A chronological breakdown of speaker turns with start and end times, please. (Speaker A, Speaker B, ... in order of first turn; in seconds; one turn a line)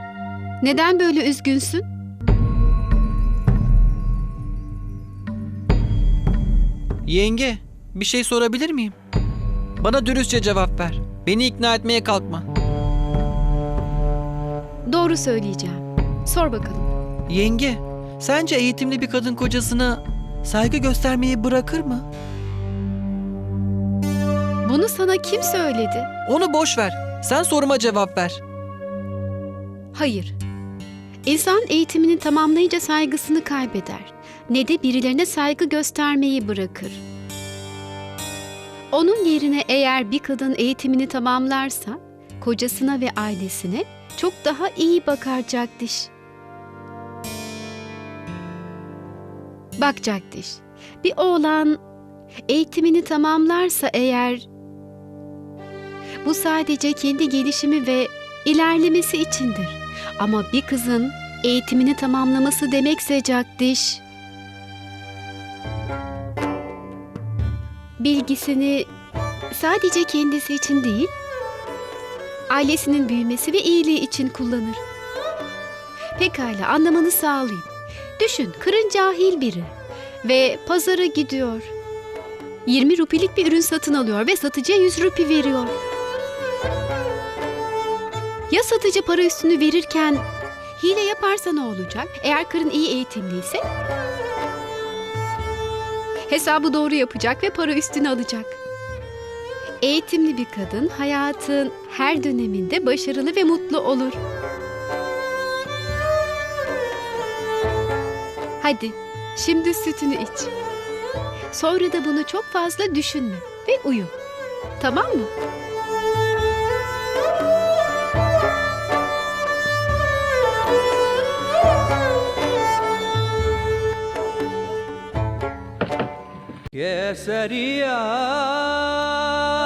Speaker A: 0.6-1.9
Speaker B: 7.0-8.9
Speaker B: 9.8-12.4
Speaker A: 14.8-16.9
Speaker B: 17.3-22.1
Speaker A: 24.6-26.1
Speaker B: 26.3-28.4
Speaker A: 29.9-30.4
Speaker A: 31.2-37.0
Speaker A: 38.9-46.1
Speaker A: 49.8-51.8
Speaker A: 52.5-54.5
Speaker A: 56.2-64.0
Speaker A: 68.0-68.9
Speaker A: 69.5-71.1
Speaker A: 72.5-74.8
Speaker A: 76.2-79.7
Speaker A: 80.2-81.7
Speaker A: 82.7-85.7
Speaker A: 88.5-90.2
Speaker A: 90.8-93.6
Speaker A: 96.3-98.6
Speaker A: 99.8-104.2
Speaker A: 108.6-110.5
Speaker A: 111.5-114.1
Speaker A: 114.8-115.3